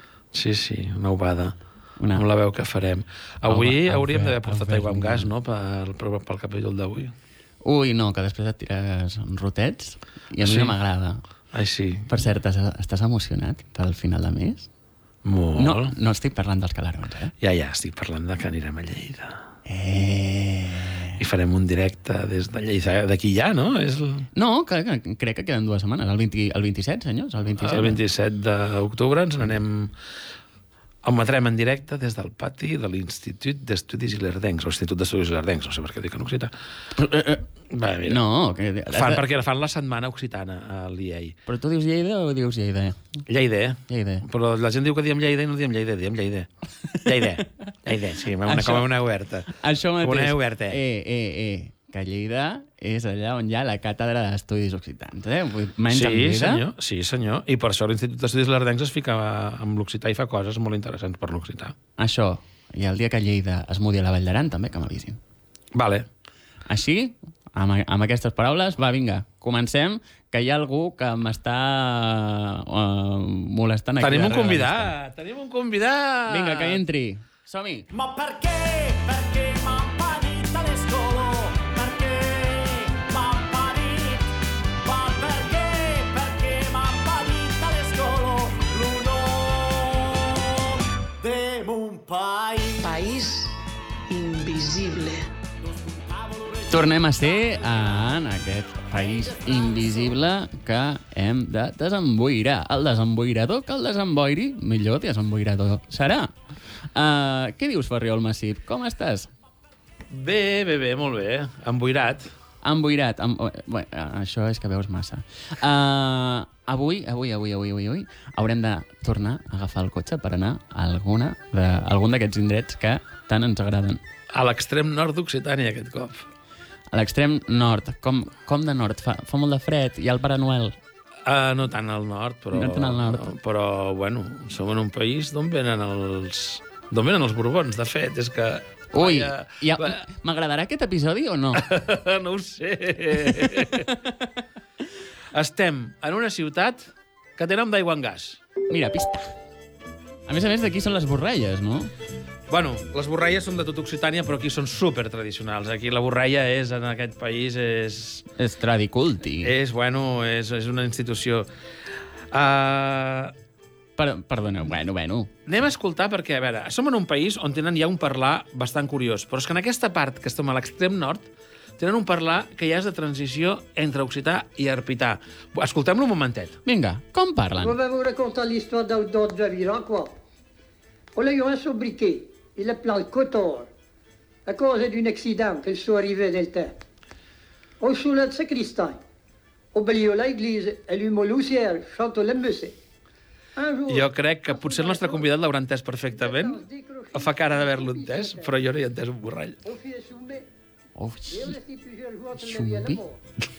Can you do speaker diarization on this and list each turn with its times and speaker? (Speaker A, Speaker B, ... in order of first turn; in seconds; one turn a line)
Speaker A: 0.3-1.6
Speaker B: 2.0-2.2
Speaker A: 2.1-7.1
Speaker B: 3.5-5.3
Speaker B: 7.6-11.2
Speaker A: 10.4-10.8
Speaker A: 11.5-12.1
Speaker B: 12.1-14.7
Speaker A: 15.2-15.9
Speaker B: 15.6-17.3
Speaker A: 17.4-19.4
Speaker B: 19.7-21.2
Speaker A: 21.2-24.3
Speaker B: 24.4-28.0
Speaker A: 27.6-29.9
Speaker A: 31.0-36.5
Speaker B: 37.0-37.5
Speaker A: 37.7-38.2
Speaker B: 38.1-39.2
Speaker A: 38.9-41.4
Speaker B: 41.5-43.2
Speaker A: 43.3-46.5
Speaker B: 43.9-44.2
Speaker A: 47.0-50.8
Speaker B: 48.5-48.9
Speaker B: 49.5-56.6
Speaker A: 55.9-61.8
Speaker B: 62.0-65.2
Speaker A: 65.8-66.1
Speaker B: 66.7-74.9
Speaker A: 74.0-76.8
Speaker B: 76.3-77.9
Speaker C: 77.9-84.3
Speaker C: 84.8-90.5
Speaker C: 91.2-92.9
Speaker D: 92.8-93.6
Speaker D: 94.1-95.3
Speaker C: 96.3-96.7
Speaker B: 96.7-106.3
Speaker B: 106.9-109.3
Speaker A: 110.1-112.3
Speaker B: 112.6-124.0
Speaker A: 124.3-126.3
Speaker B: 126.9-130.8
Speaker A: 131.3-140.0
Speaker B: 132.5-133.3
Speaker B: 138.9-141.6
Speaker A: 141.6-143.9
Speaker B: 143.4-143.9
Speaker A: 145.3-148.4
Speaker B: 148.7-149.3
Speaker B: 150.3-151.9
Speaker A: 152.5-158.3
Speaker B: 158.4-159.5
Speaker A: 159.4-161.5
Speaker A: 162.3-163.3
Speaker B: 164.0-165.3
Speaker A: 165.5-171.3
Speaker A: 171.8-176.6
Speaker B: 176.7-177.8
Speaker E: 177.6-180.2
Speaker E: 181.2-183.7
Speaker E: 184.5-186.8
Speaker E: 187.8-189.0
Speaker E: 189.7-192.8
Speaker E: 193.6-195.3
Speaker A: 193.9-196.6
Speaker E: 196.1-198.5
Speaker A: 197.1-199.6
Speaker E: 199.6-200.5
Speaker B: 201.0-201.6
Speaker E: 201.3-203.2
Speaker B: 202.4-203.0